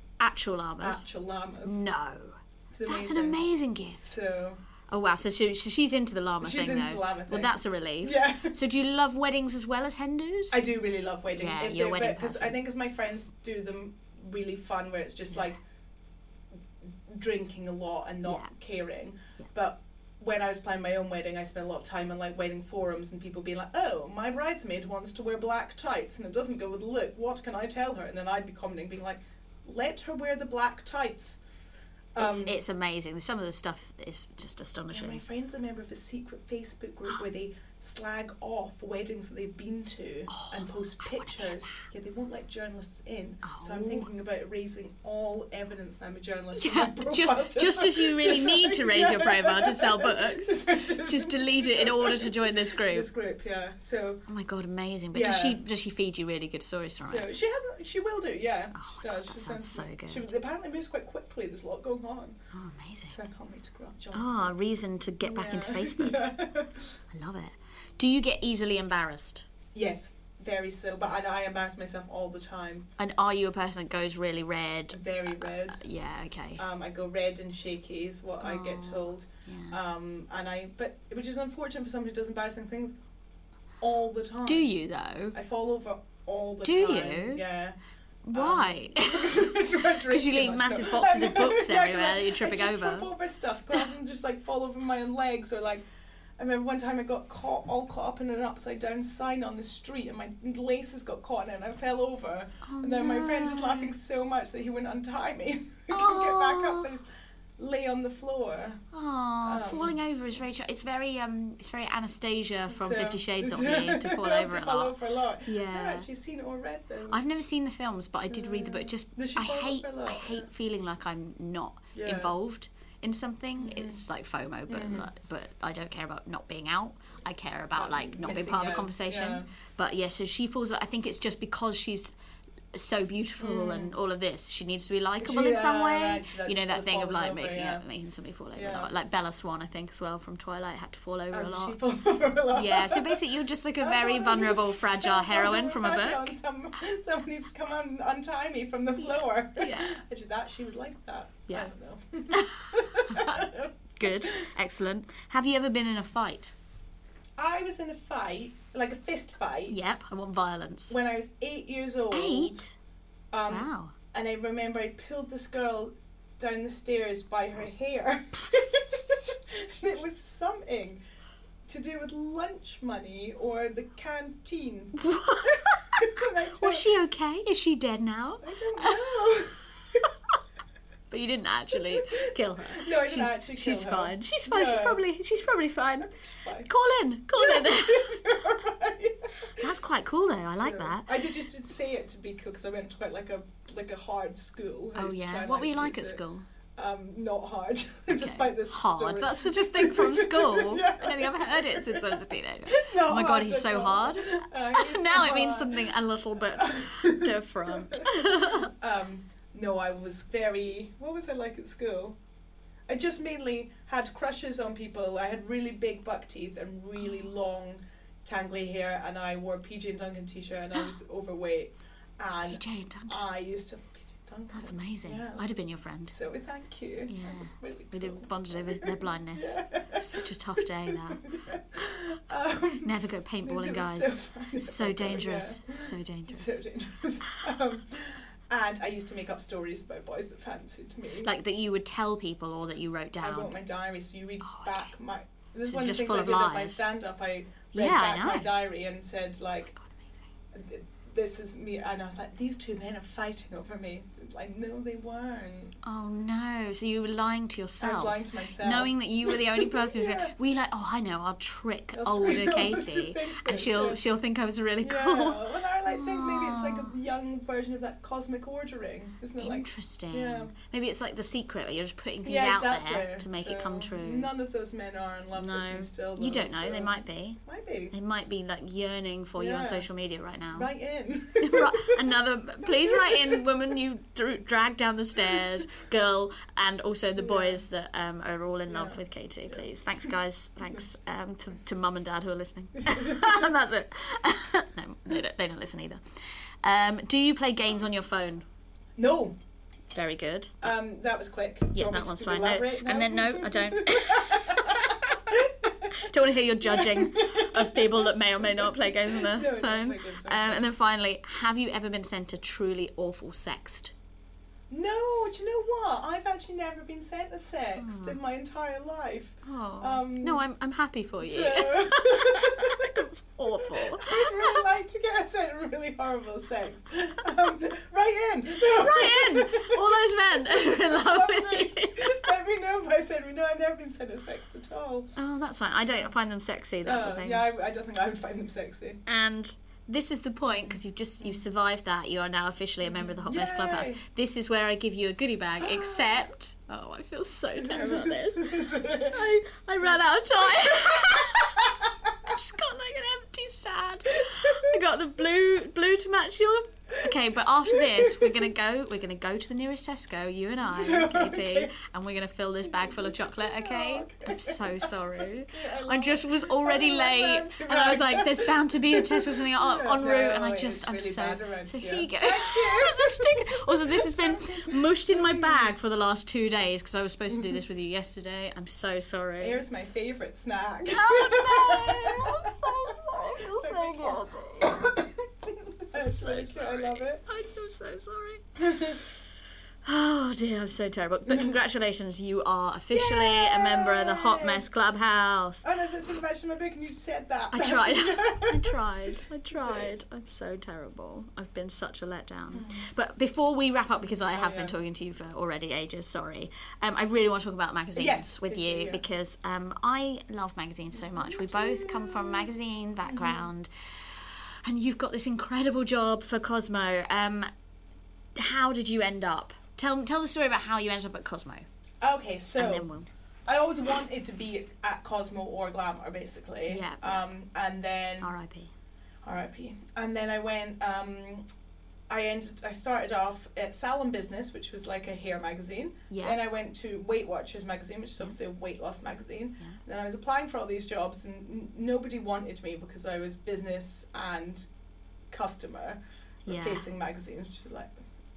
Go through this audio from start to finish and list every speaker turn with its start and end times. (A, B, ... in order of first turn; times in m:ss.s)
0:00.2-0:01.0 A
0:00.8-0:01.8 B
0:01.6-0:04.2 A
0:02.7-0:03.4 B
0:04.0-0:04.6 B
0:04.9-0:10.6 A
0:06.4-0:08.5 B
0:10.5-0:15.6 B
0:11.4-0:12.6 A
0:17.0-0:31.4 B
0:18.2-0:18.5 A
0:32.1-0:32.6 B
0:32.2-0:35.2 A
0:34.9-0:54.2 B
0:40.3-0:41.8 A
0:43.4-0:44.1 A
0:46.6-0:53.1 A
0:54.3-0:57.3 A
0:55.1-0:55.6 B
0:57.0-1:02.4 B
0:58.7-1:00.3 A
1:02.5-1:03.2 A
1:03.1-1:04.5 B
1:04.1-1:06.2 A
1:05.2-1:06.9 B
1:07.1-1:09.4 A
1:09.7-1:12.9 B
1:13.0-1:15.0 A
1:14.9-1:15.8 B
1:15.7-1:16.6 A
1:16.6-1:22.9 B
1:18.4-1:19.8 A
1:23.8-1:24.7 B
1:24.4-1:25.4 A
1:25.3-1:27.8 B
1:26.6-1:27.4 A
1:28.2-1:33.1 A
1:28.3-1:35.8 B
1:36.4-1:48.8 B
1:42.6-1:43.9 A
1:45.9-1:46.9 A
1:48.9-1:56.1 A
1:49.4-1:50.0 B
1:52.7-1:57.2 B
1:57.1-2:12.1 A
1:58.3-2:00.5 B
2:01.9-2:02.3 B
2:03.6-2:04.0 B
2:04.7-2:05.1 B
2:07.8-2:09.5 B
2:12.7-2:21.8 A
2:13.4-2:13.9 B
2:15.2-2:17.8 B
2:18.5-2:18.9 B
2:21.3-2:23.2 B
2:22.5-2:26.4 A
2:23.8-2:34.4 B
2:29.0-2:30.0 A
2:32.3-2:33.4 A
2:34.0-2:36.6 A
2:37.4-2:39.8 B
2:39.7-2:41.0 A
2:40.9-2:42.6 B
2:42.1-2:42.7 A
2:43.3-2:51.0 B
2:43.5-2:43.9 A
2:51.6-2:55.0 B
2:54.9-2:59.0 A
2:55.5-2:56.9 B
2:58.4-3:00.0 B
3:01.1-3:06.1 A
3:01.8-3:05.0 B
3:06.0-3:06.7 B
3:06.6-3:08.1 A
3:07.4-3:09.5 B
3:09.6-3:11.1 A
3:10.6-3:16.2 B
3:15.0-3:16.4 A
3:16.8-3:25.9 B
3:18.1-3:28.7 A
3:26.6-3:32.2 B
3:32.9-3:45.6 B
3:37.0-3:37.3 A
3:42.5-3:43.2 A
3:44.5-3:46.2 A
3:46.1-3:52.9 B
3:47.1-3:51.2 A
3:52.8-3:56.6 A
3:53.4-4:01.3 B
4:01.2-4:03.6 A
4:03.2-4:09.7 B
4:04.4-4:04.9 A
4:05.6-4:06.9 A
4:07.7-4:08.5 A
4:09.7-4:10.2 A
4:10.5-4:15.8 B
4:15.8-4:26.9 A
4:17.8-4:20.3 B
4:21.9-4:24.0 B
4:24.8-4:30.5 B
4:29.4-4:34.3 A
4:32.2-4:36.9 B
4:35.4-4:37.4 A
4:37.4-4:37.9 B
4:37.9-4:40.7 A
4:39.4-4:39.8 B
4:40.5-4:42.0 B
4:41.4-4:56.0 A
4:42.6-4:43.4 B
4:47.2-4:47.6 B
4:48.7-4:49.7 B
4:52.8-4:53.4 B
4:56.6-4:58.4 A
4:59.0-4:59.4 B
4:59.9-5:00.6 A
5:00.6-5:06.0 B
5:01.7-5:05.2 A
5:05.9-5:13.9 A
5:06.6-5:10.6 B
5:14.7-5:20.4 B
5:17.8-5:18.2 A
5:19.4-5:24.6 A
5:21.2-5:23.0 B
5:23.6-5:35.1 B
5:28.7-5:32.2 A
5:35.2-5:37.4 A
5:36.8-5:39.0 B
5:39.0-5:48.5 A
5:42.8-5:44.0 B
5:45.6-5:46.2 B
5:47.6-5:49.2 B
5:49.1-5:51.7 A
5:50.6-5:52.3 B
5:52.2-6:19.6 A
5:54.3-5:54.7 B
5:57.7-5:58.5 B
6:00.6-6:01.7 B
6:02.6-6:15.7 B
6:17.3-6:17.6 B
6:19.4-6:27.2 B
6:20.9-6:24.8 A
6:25.9-6:29.0 A
6:28.6-6:29.0 B
6:29.8-6:35.6 A
6:31.3-6:31.5 B
6:32.9-6:34.6 B
6:35.6-6:38.8 B
6:37.5-6:53.7 A
6:39.5-6:39.9 B
6:42.5-6:42.9 B
6:44.0-6:44.7 B
6:48.0-6:49.0 B
6:50.9-6:52.5 B
6:53.0-6:53.5 B
6:54.6-6:57.5 A
6:58.4-7:01.6 A
7:02.0-7:02.9 B
7:02.6-7:03.1 A
7:03.4-7:08.3 B
7:06.7-7:07.2 A
7:08.2-7:08.7 A
7:09.2-7:11.4 B
7:12.1-7:24.7 B
7:16.1-7:16.4 A
7:25.3-7:27.9 B
7:26.4-7:26.8 A